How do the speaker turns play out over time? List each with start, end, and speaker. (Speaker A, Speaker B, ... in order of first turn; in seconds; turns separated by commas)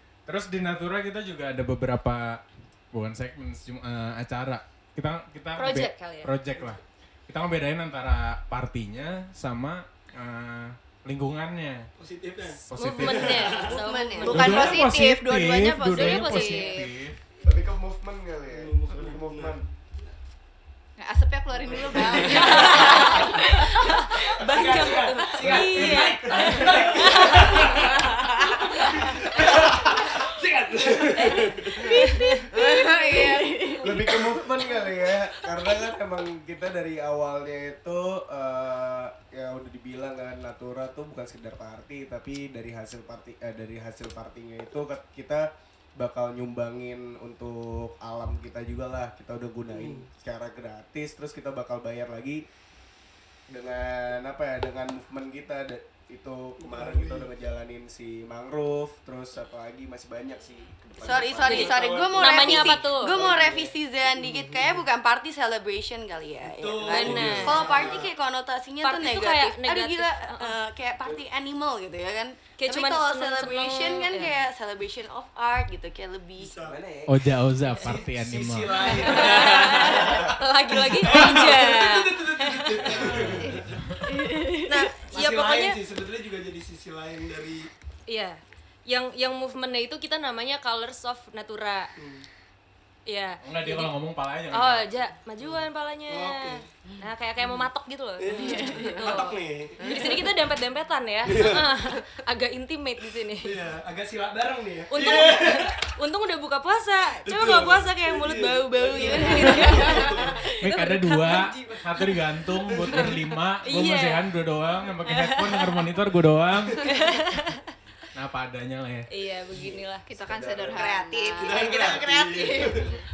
Speaker A: 0.3-11.9, Speaker B: 5.6-6.3, Speaker C: 12.0-13.8, Speaker B: 12.7-14.8, Speaker A: 12.7-13.4, Speaker D: 13.5-14.6, Speaker E: 14.2-16.9, Speaker A: 14.3-17.2, Speaker B: 15.8-16.8, Speaker F: 17.4-19.6, Speaker C: 18.5-20.1, Speaker E: 21.0-24.8, Speaker C: 21.7-23.1, Speaker B: 22.2-28.1, Speaker C: 24.4-31.9, Speaker A: 25.4-26.9, Speaker B: 28.8-29.4, Speaker B: 31.3-32.5, Speaker E: 32.0-34.0, Speaker D: 32.5-34.1, Speaker F: 33.8-52.5, Speaker C: 49.7-50.1, Speaker F: 53.5-63.7, Speaker C: 56.6-57.3, Speaker D: 61.0-76.6, Speaker C: 61.4-62.8, Speaker B: 61.4-63.1, Speaker C: 64.2-64.8, Speaker C: 66.5-68.1, Speaker B: 66.9-67.7, Speaker F: 67.7-68.0, Speaker B: 68.8-70.6, Speaker B: 72.6-74.3, Speaker C: 76.4-76.8, Speaker F: 76.6-77.3, Speaker A: 77.1-79.2, Speaker C: 77.8-83.8, Speaker F: 78.1-78.6, Speaker B: 79.0-82.9, Speaker A: 82.9-84.1, Speaker F: 83.0-83.6, Speaker E: 84.0-84.9, Speaker B: 84.6-85.8, Speaker C: 85.0-87.7, Speaker B: 88.1-91.9, Speaker C: 92.0-92.3, Speaker B: 93.1-93.9, Speaker A: 93.4-94.9, Speaker B: 94.5-103.6, Speaker C: 95.4-96.7, Speaker D: 96.9-97.6, Speaker C: 98.2-100.4, Speaker D: 98.3-99.2, Speaker D: 99.8-100.3, Speaker C: 101.2-101.8, Speaker C: 103.4-105.9, Speaker B: 104.9-111.4, Speaker C: 107.2-110.5, Speaker D: 109.0-110.0, Speaker A: 110.5-117.2, Speaker C: 112.7-113.4, Speaker B: 113.6-114.3, Speaker B: 115.1-115.9, Speaker B: 116.8-117.7, Speaker A: 118.1-119.1, Speaker B: 119.1-120.0, Speaker E: 120.1-122.0, Speaker F: 120.1-120.9, Speaker D: 120.7-123.0, Speaker C: 121.4-123.0